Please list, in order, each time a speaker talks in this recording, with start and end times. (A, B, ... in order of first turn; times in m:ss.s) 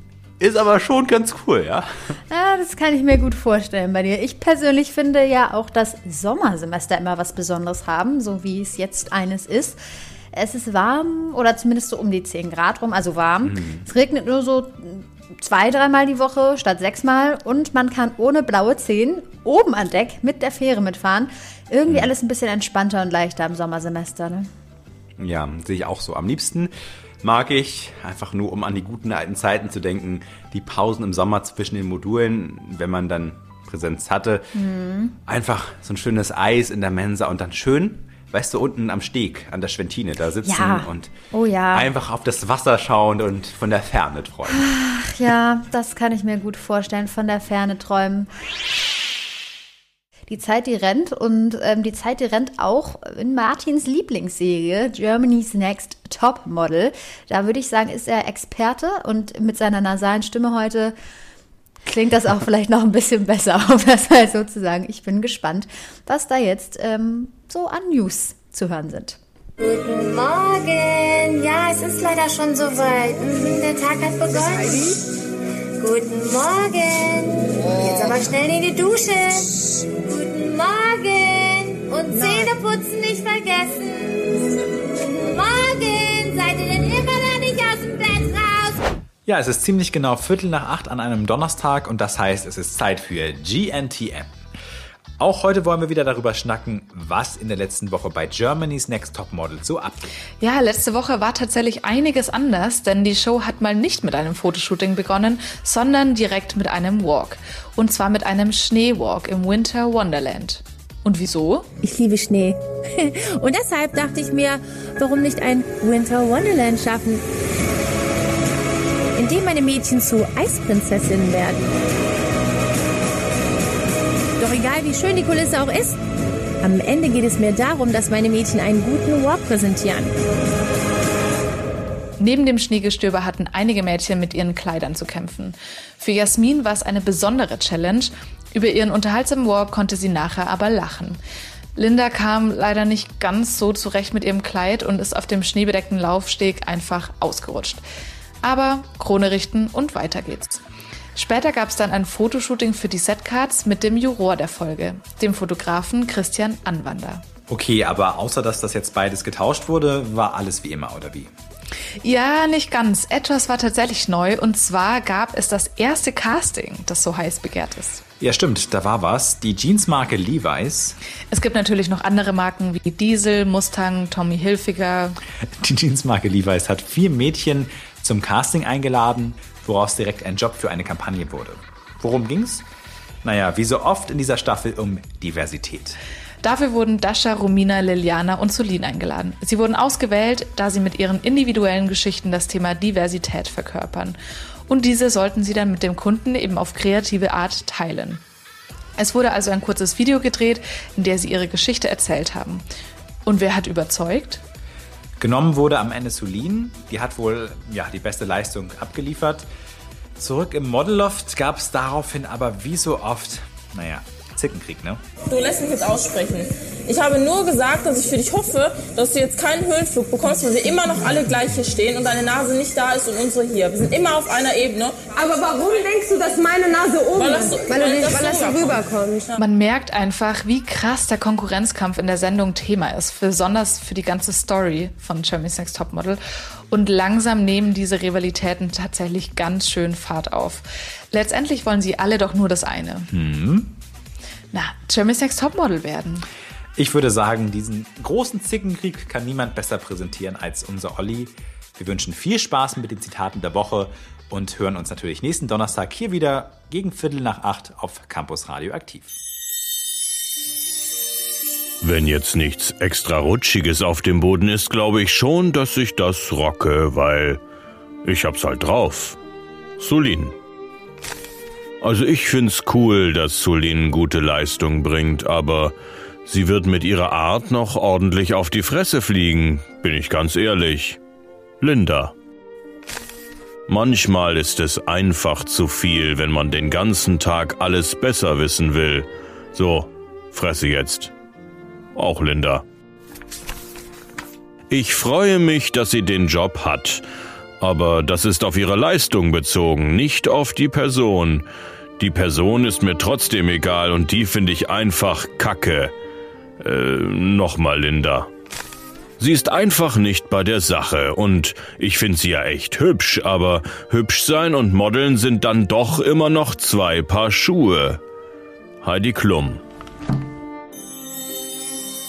0:00.4-0:02.2 A
0:02.3-0:09.8 B
0:10.3-0:24.5 B
0:13.4-0:13.9 A
0:25.2-0:34.5 A
0:34.6-0:35.2 B
0:35.3-0:41.1 A
0:40.4-0:41.9 B
0:41.7-0:44.7 A
0:44.5-0:48.3 B
0:50.3-1:00.9 B
1:01.8-1:09.2 B
1:09.6-1:15.0 C
1:15.8-1:24.4 C
1:25.2-1:28.8 C
1:29.2-1:34.3 A
1:35.2-1:40.1 A
1:40.4-1:51.6 D
1:51.8-1:57.2 E
1:59.2-2:01.7 E
2:04.4-2:06.0 E
2:06.6-2:10.2 E
2:12.2-2:21.2 D
2:21.8-2:27.8 D
2:28.4-2:30.6 D
2:31.2-2:37.2 D
2:37.5-2:41.3 A
2:42.0-2:48.0 D
2:48.2-2:51.0 A
2:51.3-2:55.2 D
2:55.6-3:02.6 A
3:03.2-3:06.0 A
3:06.4-3:18.2 D
3:19.0-3:22.6 D
3:23.2-3:24.4 D
3:25.2-3:29.5 A
3:30.2-3:35.0 A
3:35.3-3:44.9 F
3:45.1-3:49.4 G
3:49.4-4:03.1 D
4:03.1-4:03.7 A
4:04.5-4:06.2 D
4:06.8-4:19.2 A
4:21.8-4:27.4 H
4:28.0-4:29.2 H
4:29.8-4:30.4 H
4:31.8-4:35.8 H
4:36.2-4:41.0 H
4:41.6-4:42.1 H
4:43.7-4:51.1 H
4:51.9-4:52.6 H
4:54.7-4:57.0 H
4:57.6-5:01.4 H
5:02.0-5:05.9 H
5:06.6-5:08.3 H
5:09.2-5:18.0 H
5:18.8-5:19.6 H